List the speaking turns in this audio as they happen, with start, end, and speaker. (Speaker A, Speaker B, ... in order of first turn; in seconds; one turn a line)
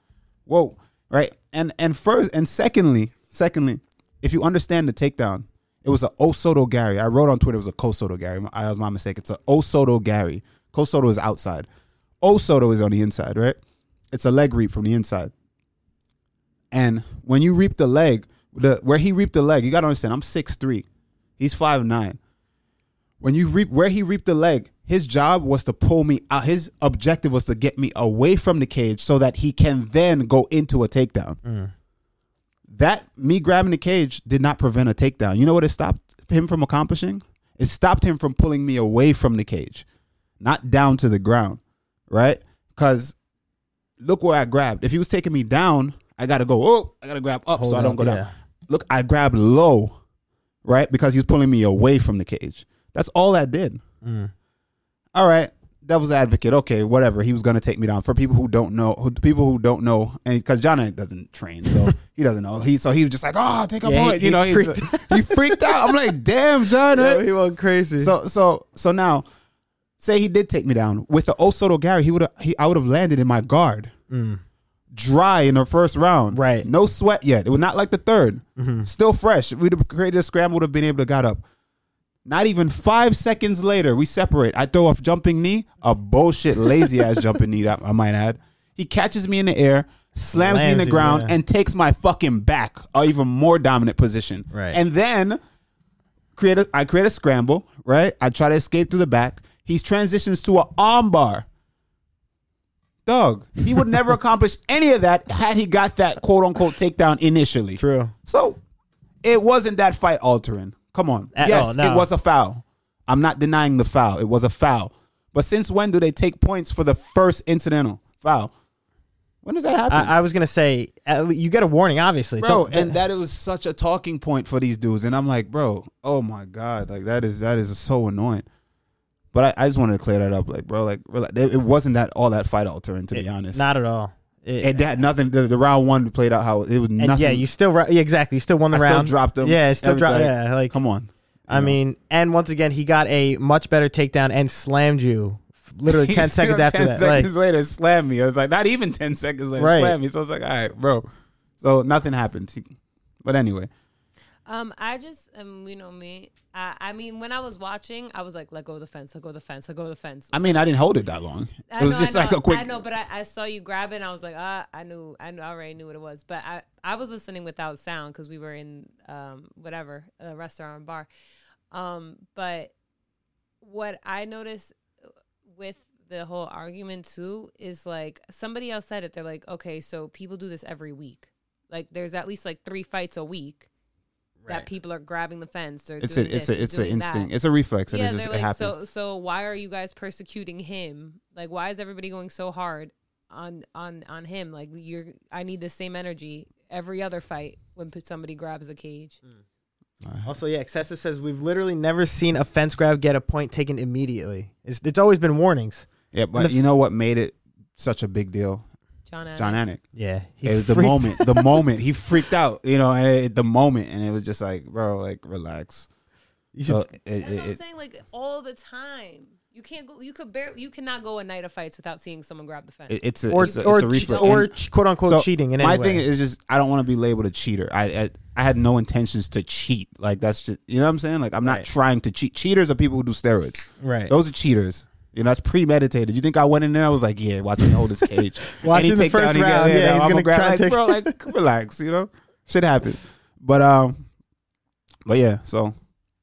Speaker A: 0.5-11.7
Speaker A: 12.2-13.6
Speaker A: 14.1-15.3
Speaker A: 16.7-20.9
Speaker A: 21.4-22.2
Speaker A: 23.2-31.4
Speaker B: 31.4-31.7
Speaker A: 32.7-39.9
Speaker A: 40.4-43.2
Speaker A: 44.0-50.0
Speaker B: 47.6-48.3
Speaker A: 50.6-53.8
Speaker B: 54.0-54.3
Speaker A: 55.1-67.3
Speaker B: 63.8-66.0
Speaker B: 66.9-68.1
Speaker A: 68.0-69.2
Speaker A: 70.0-73.9
Speaker B: 74.1-74.4
Speaker A: 74.9-81.4
Speaker B: 76.3-76.7
Speaker B: 78.6-78.9
Speaker A: 82.2-95.4
Speaker B: 90.3-91.4
Speaker B: 94.5-94.8
Speaker A: 96.3-101.5
Speaker A: 103.1-108.6
Speaker B: 107.8-108.1
Speaker A: 109.2-118.5
Speaker B: 111.3-112.1
Speaker A: 119.4-120.1
Speaker B: 119.9-123.0
Speaker A: 122.4-128.4
Speaker A: 129.3-133.6
Speaker B: 133.1-134.9
Speaker A: 134.6-137.5
Speaker B: 137.0-140.8
Speaker A: 138.7-141.8
Speaker B: 141.5-147.3
Speaker A: 145.9-151.1
Speaker B: 149.6-150.0
Speaker A: 151.6-153.7
Speaker C: 154.5-160.6
Speaker A: 160.3-162.8
Speaker C: 161.7-171.1
Speaker C: 171.7-172.7
Speaker C: 173.6-174.8
Speaker C: 175.5-183.7
Speaker B: 184.4-184.7
Speaker C: 184.5-187.3
Speaker A: 186.0-188.8
Speaker C: 187.9-199.2
Speaker A: 200.0-200.3
Speaker B: 200.2-206.6
Speaker A: 206.1-208.7
Speaker C: 209.1-209.6
Speaker A: 209.4-209.8
Speaker B: 209.9-211.6
Speaker A: 210.4-215.9
Speaker B: 216.5-216.9
Speaker A: 216.7-217.6
Speaker C: 217.2-224.4
Speaker A: 222.9-244.1
Speaker B: 223.3-226.0
Speaker B: 233.8-234.1
Speaker B: 238.5-241.2
Speaker A: 245.1-245.7